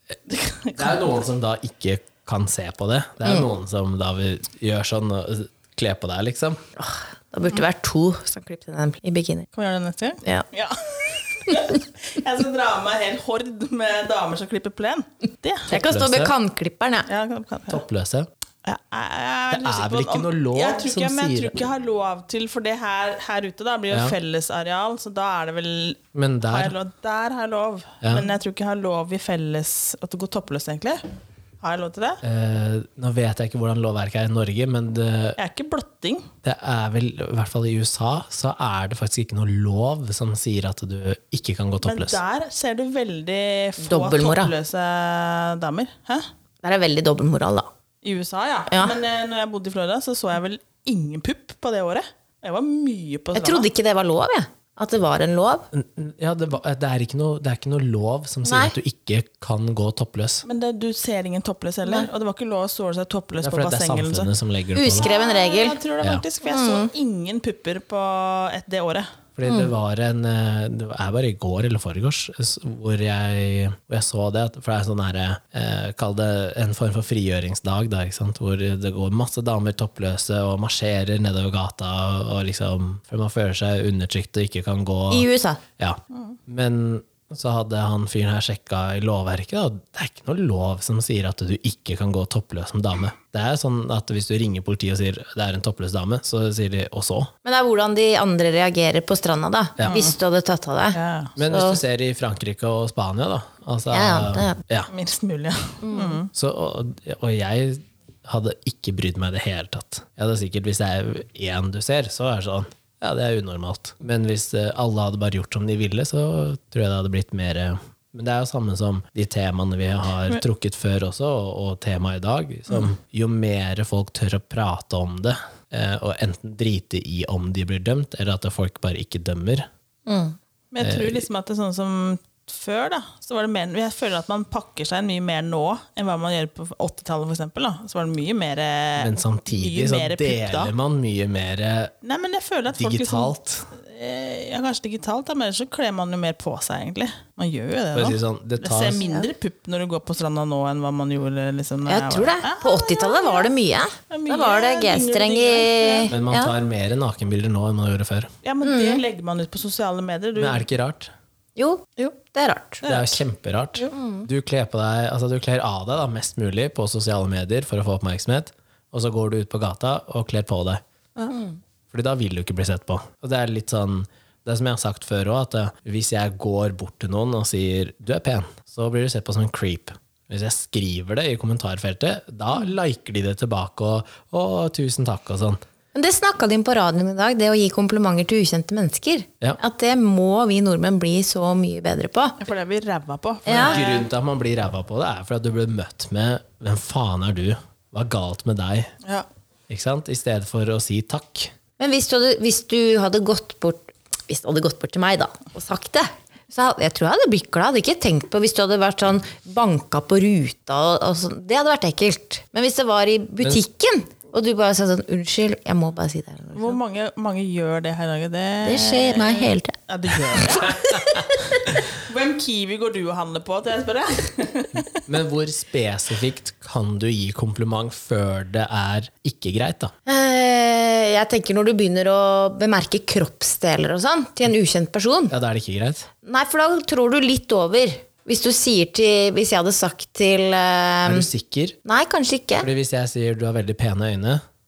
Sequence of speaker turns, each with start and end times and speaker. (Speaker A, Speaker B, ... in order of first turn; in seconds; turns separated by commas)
Speaker A: 0.3-1.1, Speaker B: 0.8-6.6, Speaker C: 6.8-9.5, Speaker A: 9.5-15.7, Speaker C: 11.4-11.8, Speaker C: 15.7-17.1, Speaker B: 15.7-16.3, Speaker A: 17.1-17.8, Speaker B: 17.7-18.3, Speaker A: 18.6-31.0, Speaker B: 19.5-21.5, Speaker B: 23.9-24.1, Speaker B: 26.1-26.7, Speaker B: 28.0-28.3, Speaker A: 31.6-32.2, Speaker B: 32.2-35.4, Speaker A: 35.4-36.3, Speaker B: 36.4-42.2, Speaker A: 41.8-46.3, Speaker C: 43.8-44.5, Speaker C: 46.6-47.7, Speaker A: 48.0-53.7, Speaker C: 48.7-49.0, Speaker C: 53.3-55.7, Speaker B: 55.7-60.5, Speaker C: 58.5-58.8, Speaker A: 60.5-64.3, Speaker B: 63.4-65.1, Speaker C: 64.7-65.8, Speaker A: 64.9-69.1, Speaker C: 66.4-66.9, Speaker B: 69.4-97.3, Speaker C: 69.5-69.7, Speaker C: 85.1-85.6, Speaker C: 97.4-101.8, Speaker A: 99.9-100.2, Speaker A: 100.9-101.3, Speaker B: 101.4-104.9, Speaker C: 103.9-104.6, Speaker A: 104.9-106.3, Speaker C: 105.8-106.2, Speaker B: 106.3-129.7, Speaker C: 130.1-130.4, Speaker A: 130.7-140.7, Speaker B: 130.8-131.3, Speaker B: 139.0-141.9, Speaker A: 142.0-153.5, Speaker B: 142.7-143.7, Speaker B: 147.9-149.0, Speaker C: 151.9-156.5, Speaker A: 154.1-156.1, Speaker B: 156.1-158.3, Speaker A: 158.4-160.6, Speaker C: 158.6-159.0, Speaker B: 160.4-161.1, Speaker C: 161.6-162.8, Speaker A: 162.8-163.2, Speaker B: 162.8-170.8, Speaker C: 163.8-164.3, Speaker C: 171.3-171.6, Speaker B: 171.9-185.6, Speaker C: 185.9-192.4, Speaker A: 192.4-194.1, Speaker C: 193.4-193.8, Speaker B: 193.5-198.9, Speaker B: 199.7-201.5, Speaker C: 201.8-216.8, Speaker A: 216.5-220.8, Speaker C: 218.6-219.8, Speaker C: 220.3-221.6, Speaker A: 221.7-225.0, Speaker B: 225.1-229.9, Speaker C: 230.1-235.3, Speaker B: 235.3-236.1, Speaker C: 236.2-241.3, Speaker B: 241.1-241.8, Speaker C: 241.8-242.7, Speaker B: 242.6-244.4